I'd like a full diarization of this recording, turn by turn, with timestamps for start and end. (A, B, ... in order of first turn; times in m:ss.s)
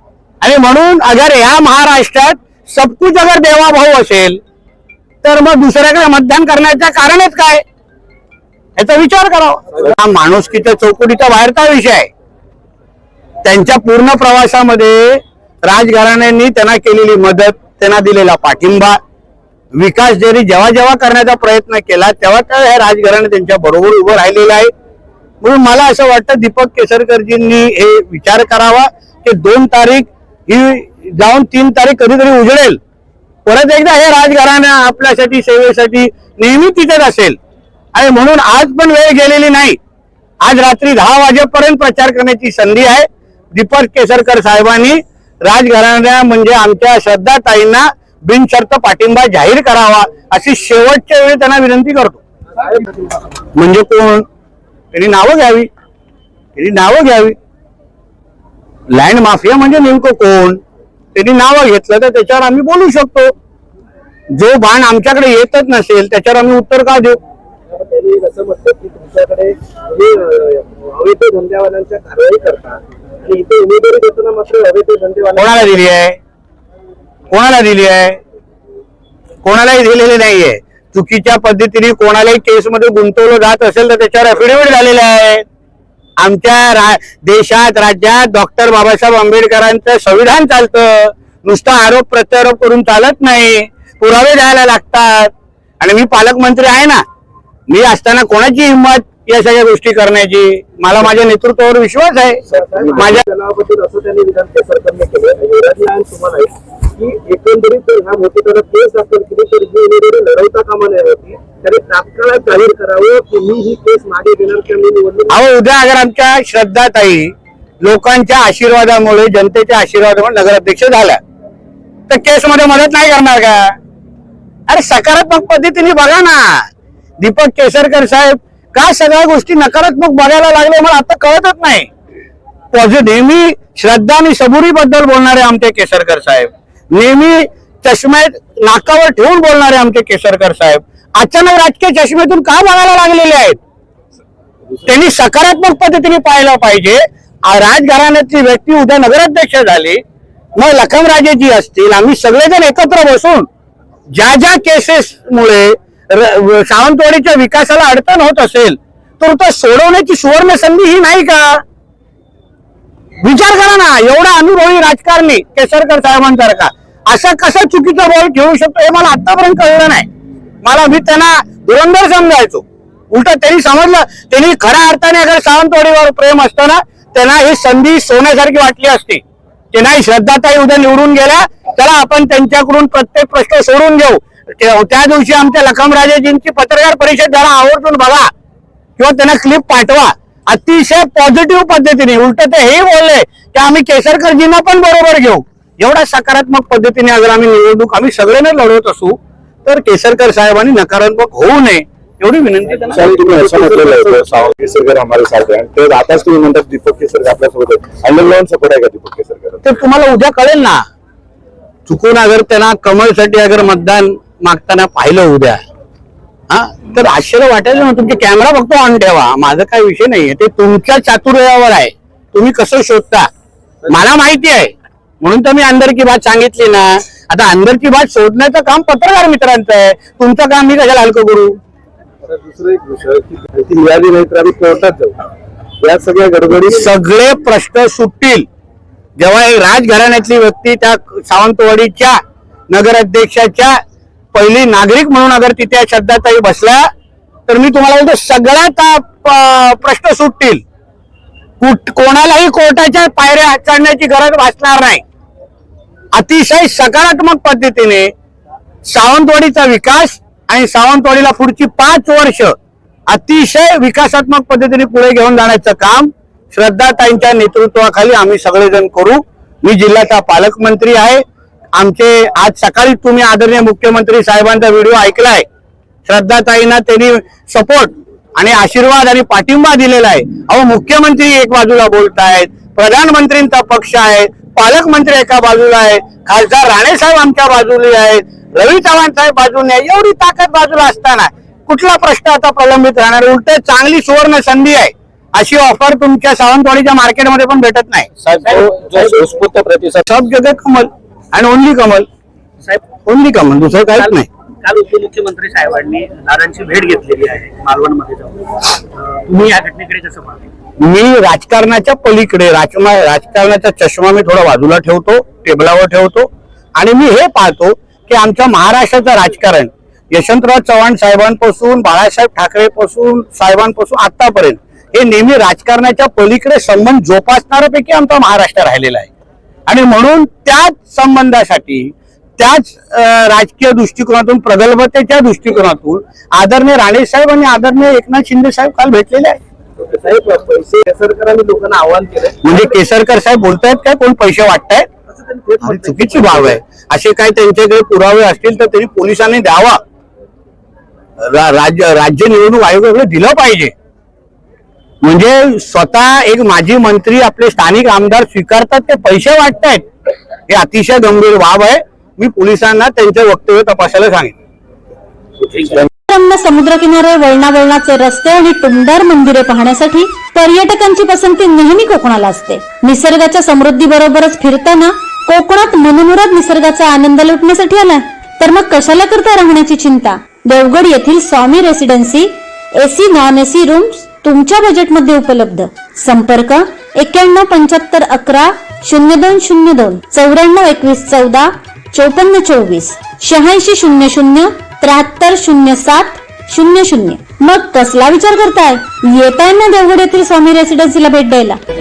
0:00.4-0:04.4 A
0:05.2-0:07.6 A
0:08.8-0:12.1 A
0:13.4-0:19.0 A
0:19.7-0:24.7 A
0:25.4-0:32.8 A
0:33.4-0:37.4 A
0:37.9-0:39.8 A
0:40.4-0:52.2 A
0:53.6-0:54.2 A
0:54.9-0:55.7 A
0:56.6-0:57.4 A
0:58.9-1:00.6 A
1:01.1-1:03.3 A
1:04.3-1:07.2 A
1:07.7-1:15.7 B
1:15.4-1:16.2 A
1:17.3-1:18.2 A
1:19.4-1:25.4 A
1:26.2-1:37.0 A
1:37.7-1:43.2 A
1:42.5-1:55.4 B
1:55.3-2:01.2 A
2:02.1-2:03.7 A
2:04.7-2:06.7 A
2:07.2-2:11.9 A
2:12.7-2:23.6 A
2:24.8-2:30.0 A
2:30.6-2:33.5 A
2:34.1-2:41.6 A
2:43.2-2:50.1 A
2:50.6-3:08.3 A
3:09.0-3:24.0 A
3:22.9-3:29.6 C
3:29.6-3:30.8 A
3:31.9-3:35.6 A
3:36.5-3:43.3 A
3:43.9-3:51.6 A
3:52.3-3:55.1 B
3:55.8-3:56.8 B
3:56.7-3:58.4 A
3:59.2-4:02.2 A
4:02.7-4:03.8 A
4:04.3-4:06.9 A
4:07.5-4:10.6 A
4:11.6-4:15.0 A
4:16.1-4:18.1 A
4:18.8-4:22.6 A
4:23.1-4:31.2 A
4:31.8-4:35.4 A
4:36.1-4:58.1 A
4:58.2-5:00.0 D
5:00.0-5:02.1 A
5:03.1-5:04.3 A
5:04.0-5:10.5 D
5:10.8-5:29.1 A
5:29.7-5:39.4 A
5:39.8-5:42.4 B
5:42.4-5:44.8 A
5:45.1-5:46.4 B
5:45.6-5:49.8 A
5:51.2-5:53.7 A
5:55.0-5:59.8 A
6:00.5-6:04.3 A
6:05.4-6:05.8 D
6:06.1-6:41.6 E